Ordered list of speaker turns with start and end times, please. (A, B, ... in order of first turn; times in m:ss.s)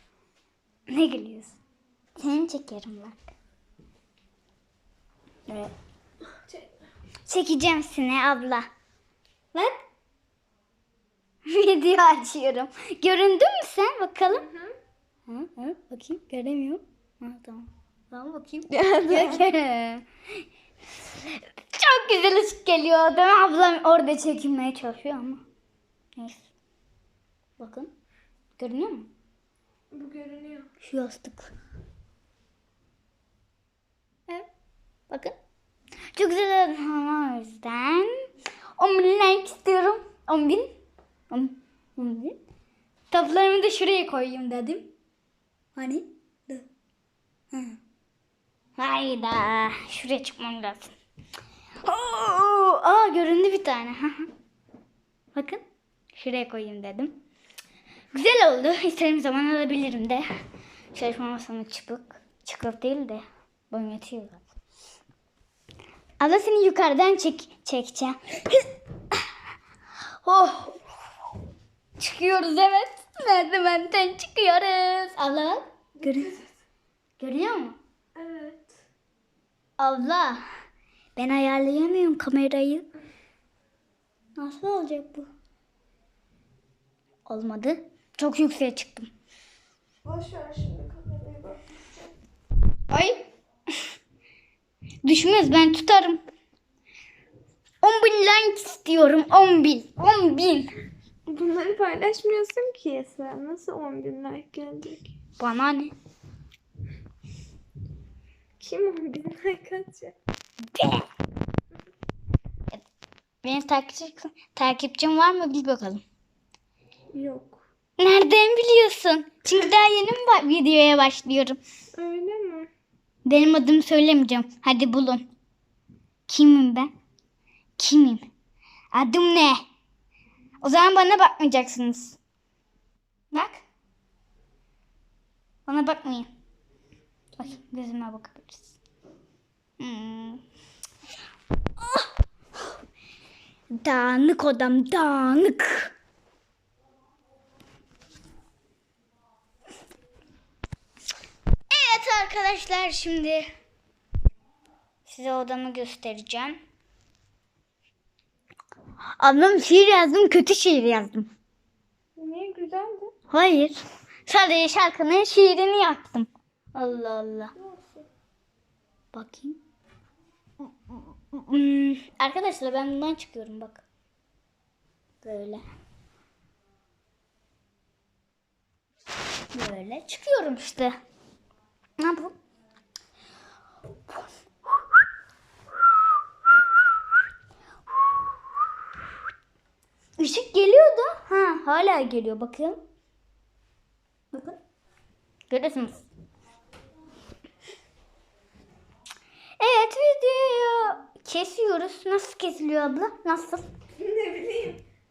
0:00.9-0:01.6 A
0:02.2-0:03.3 A
0:05.5-0:05.7 A
0:07.3-0:08.7 A
0:11.5-0:14.5 A
0:14.4-0:14.7 B
0:15.3-0:20.1 A
0:18.7-0:19.4 B
0:21.1-0:25.4 A
0:26.2-0:26.5 A
0:27.6-0:27.9 A
0:28.6-0:29.1 A
0:29.9-0:30.7 B
0:30.8-0:31.5 A
0:35.1-0:35.4 A
0:36.2-0:38.2 A
0:38.8-0:40.7 A
0:41.3-0:42.4 A
0:43.1-0:44.9 A
0:45.8-0:46.7 A
0:47.5-0:47.8 A
0:48.8-0:50.9 A
0:51.8-0:54.3 A
0:55.4-0:55.6 A
0:56.1-0:57.2 A
0:58.1-1:00.2 A
1:00.9-1:04.5 A
1:06.2-1:08.7 A
1:10.2-1:10.8 A
1:12.0-1:16.4 A
1:16.1-1:16.5 B
1:17.2-1:17.8 A
1:18.2-1:18.8 B
1:19.8-1:20.4 A
1:21.2-1:22.8 A
1:24.4-1:25.3 A
1:27.3-1:29.1 A
1:30.0-1:31.8 B
1:32.9-1:33.2 A
1:35.0-1:36.2 A
1:37.8-1:40.7 A
1:41.3-1:45.1 B
1:45.4-1:45.9 A
1:48.6-1:50.2 B
1:50.7-1:51.1 A
1:53.4-1:56.0 A
1:57.1-1:57.6 B
1:58.0-2:01.6 A
2:02.0-2:02.7 B
2:03.2-2:05.3 A
2:06.3-2:06.9 A
2:07.8-2:08.3 A
2:08.9-2:09.6 A
2:10.6-2:12.2 A
2:13.3-2:13.6 A
2:15.7-2:16.3 A
2:17.4-2:18.7 A
2:19.8-2:20.4 A
2:21.8-2:22.1 A
2:23.7-2:25.9 A
2:31.7-2:33.5 A
2:35.0-2:36.6 A
2:39.2-2:41.3 A
2:42.2-2:43.1 B
2:43.3-2:47.5 A
2:47.6-2:48.0 B
2:49.1-2:49.6 A
2:50.6-2:53.8 A
2:55.2-2:55.6 A
2:59.5-3:00.9 A
3:02.0-3:02.3 A
3:10.2-3:12.8 A
3:14.3-3:14.6 A
3:15.5-3:16.1 A
3:19.6-3:23.6 A
3:24.0-3:24.8 B